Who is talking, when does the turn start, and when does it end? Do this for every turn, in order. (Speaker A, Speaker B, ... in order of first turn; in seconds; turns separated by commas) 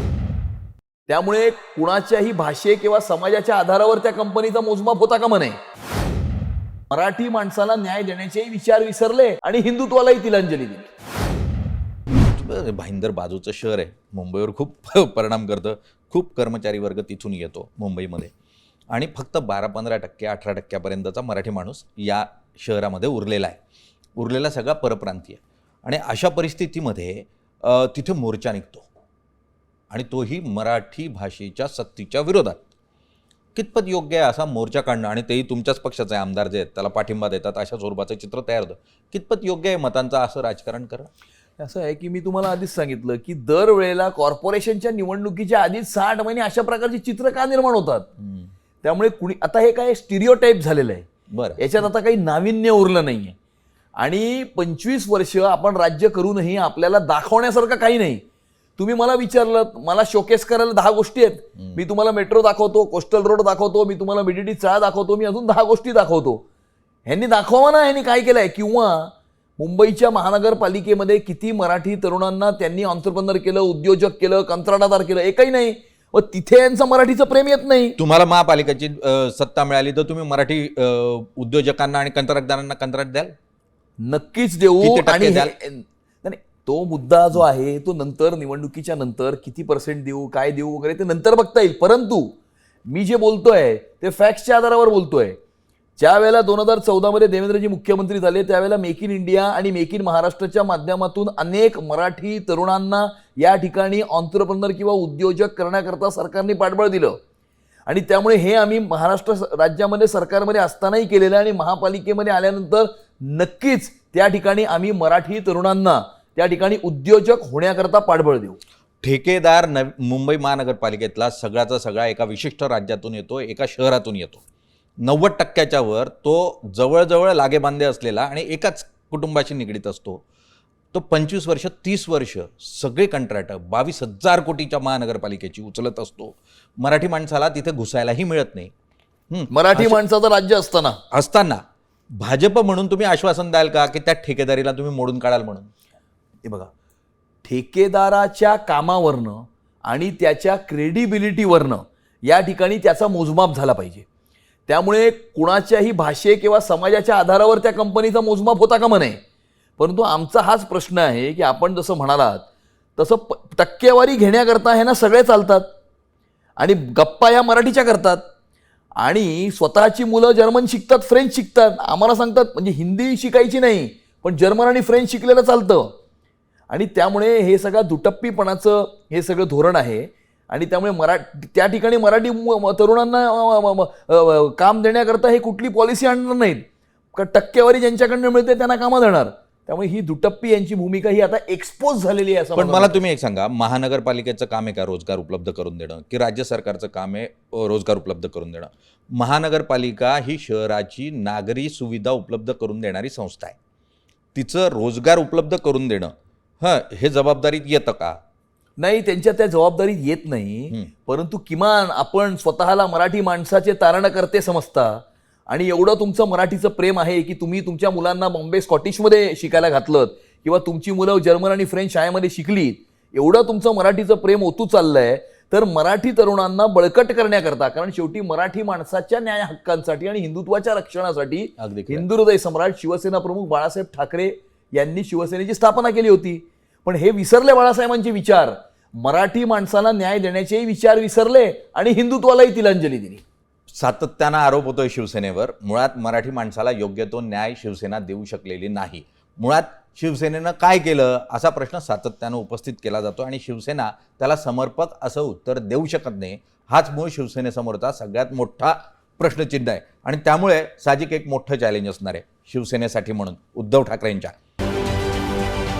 Speaker A: 1.1-5.5, Speaker A: 6.9-10.9, Speaker B: 12.3-18.3, Speaker B: 18.9-23.6, Speaker B: 24.2-28.9, Speaker B: 29.9-32.6, Speaker B: 33.5-41.1, Speaker A: 41.6-48.0, Speaker B: 48.2-48.5, Speaker A: 48.8-51.1, Speaker B: 51.3-51.6, Speaker A: 51.6-53.3, Speaker A: 54.0-58.2, Speaker A: 58.8-66.4, Speaker B: 61.6-61.8, Speaker A: 67.1-78.0, Speaker B: 78.0-83.3, Speaker A: 84.0-92.3, Speaker B: 84.8-85.5, Speaker A: 92.9-95.3, Speaker A: 96.0-107.2, Speaker A: 107.9-118.6, Speaker B: 119.0-124.4, Speaker B: 125.0-130.2, Speaker B: 130.9-138.7, Speaker B: 139.3-140.0, Speaker A: 139.5-141.0, Speaker B: 141.1-141.6, Speaker B: 142.2-145.7, Speaker A: 146.4-146.7, Speaker A: 147.4-154.1, Speaker A: 154.7-159.2, Speaker A: 159.8-162.4, Speaker A: 163.0-165.7, Speaker A: 166.6-168.2, Speaker A: 169.0-175.9, Speaker A: 176.7-186.6, Speaker A: 187.1-193.0, Speaker B: 192.6-203.6, Speaker B: 204.3-208.2, Speaker A: 208.8-243.2, Speaker B: 231.6-232.0, Speaker B: 243.7-264.3